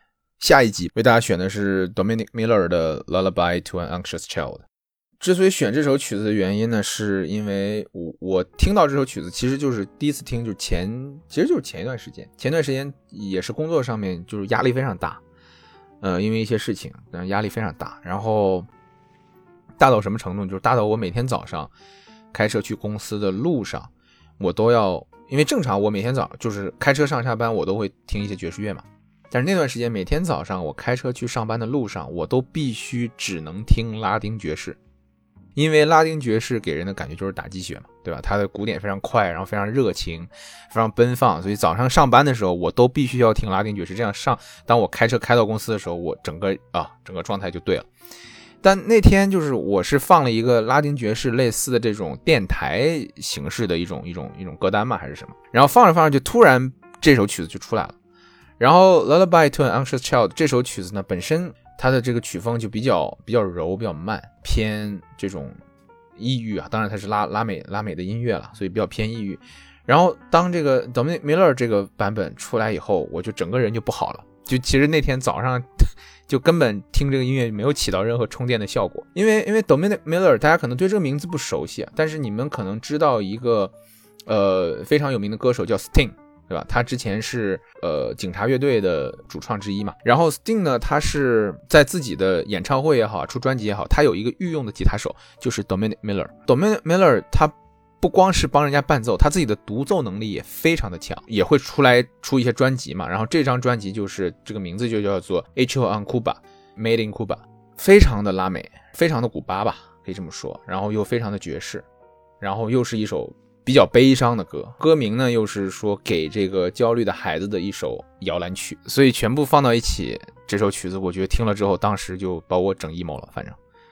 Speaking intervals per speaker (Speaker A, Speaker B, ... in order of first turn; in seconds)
Speaker A: 0.4-4.6, 5.2-15.2, 16.0-18.7, 19.8-21.7, 22.3-34.8, 35.5-47.9, 48.6-57.9, 58.6-65.6, 66.2-83.7, 84.2-111.8, 112.4-123.6